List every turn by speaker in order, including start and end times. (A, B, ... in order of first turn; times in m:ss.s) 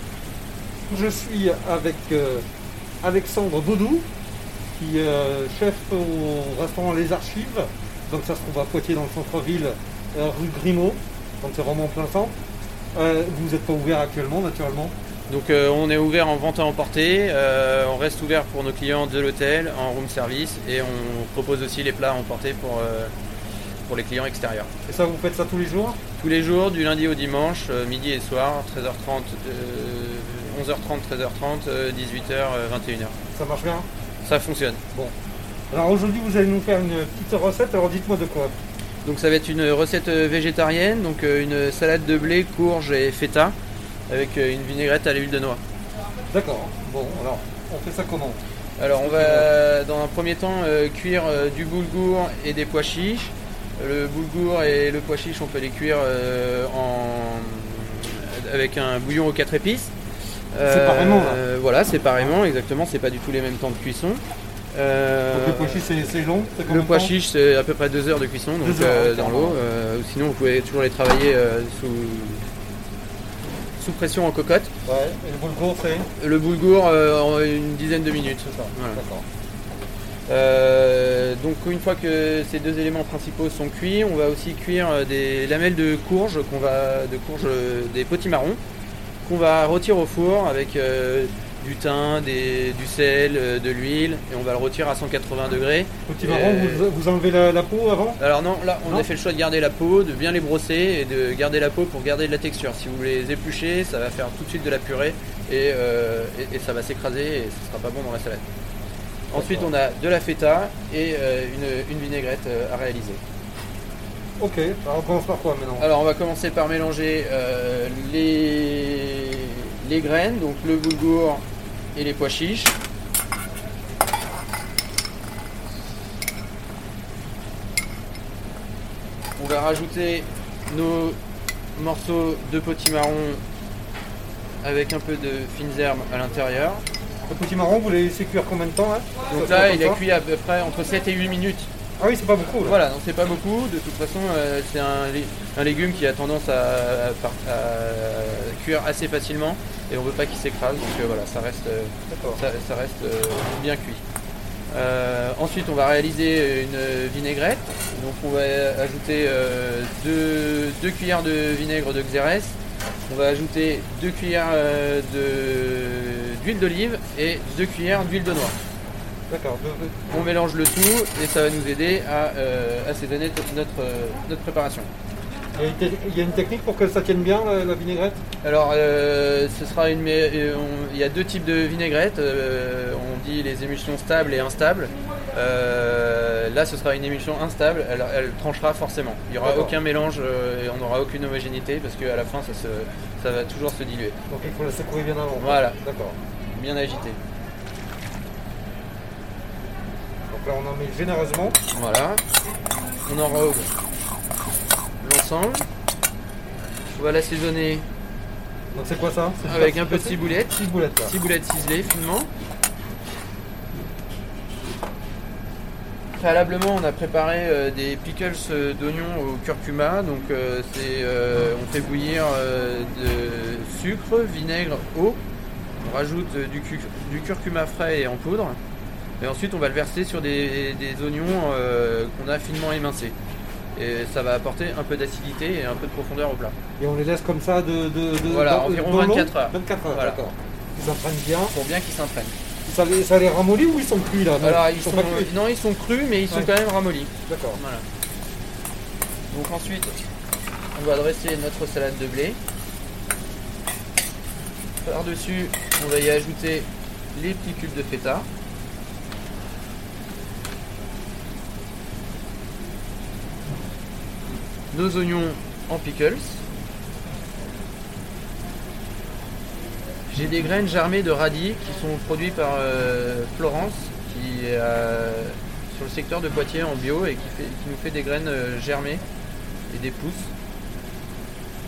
0:00.9-0:02.4 A
0:03.0-0:04.1 A
0:04.8-0:12.3 A
0:12.9-0:14.9 A
0:15.3-0:23.1 B
0:23.9-0:24.7 B
0:24.8-0:26.0 A
0:26.2-0:33.1 B
0:33.3-0:33.9 A
0:34.2-0:34.8 B
0:35.7-0:38.5 A
0:39.0-0:43.6 B
0:44.1-0:45.6 B
0:46.3-0:48.4 A
0:48.8-0:59.9 B
0:49.0-0:49.5 A
1:00.5-1:04.2 B
1:00.6-1:01.4 A
1:04.7-1:05.9 B
1:05.3-1:07.1 A
1:06.7-1:12.4 B
1:08.6-1:09.6 A
1:13.8-1:14.7 B
1:14.9-1:16.1 A
1:16.2-1:19.0 B
1:18.9-1:19.2 A
1:20.3-1:28.6 B
1:29.2-1:36.9 B
1:36.1-1:38.2 A
1:38.2-1:48.4 B
1:49.3-1:49.7 A
1:49.3-1:53.2 B
1:54.4-1:55.9 A
1:55.8-2:01.4 B
2:01.9-2:02.8 B
2:09.4-2:11.2 B
2:11.7-2:13.4 B
2:14.6-2:16.8 B
2:17.3-2:20.0 A
2:19.3-2:21.7 B
2:22.0-2:22.8 A
2:22.6-2:34.0 B
2:32.1-2:32.4 A
2:34.7-2:48.5 B
2:49.3-2:50.0 A
2:50.1-2:54.9 B
2:55.5-2:58.2 A
2:58.4-3:14.2 B
3:09.4-3:09.8 A
3:14.3-3:16.2 A
3:15.4-3:15.8 B
3:16.5-3:17.2 B
3:20.3-3:21.6 A
3:21.7-3:22.2 B
3:23.0-3:23.7 B
3:25.0-3:25.6 B
3:26.9-3:27.8 B
3:28.7-3:31.1 A
3:29.4-3:32.3 B
3:36.2-3:45.2 B
3:45.8-3:48.6 B
3:49.2-3:53.2 B
3:53.7-3:56.6 B
3:56.8-4:01.5 A
3:58.3-4:00.2 B
4:01.5-4:02.3 B
4:02.6-4:05.3 A
4:04.4-4:07.8 B
4:07.3-4:07.6 A
4:09.3-4:10.0 B
4:10.7-4:12.4 B
4:14.8-4:18.3 B
4:24.7-4:26.4 B
4:30.1-4:39.0 B
4:39.7-4:40.3 B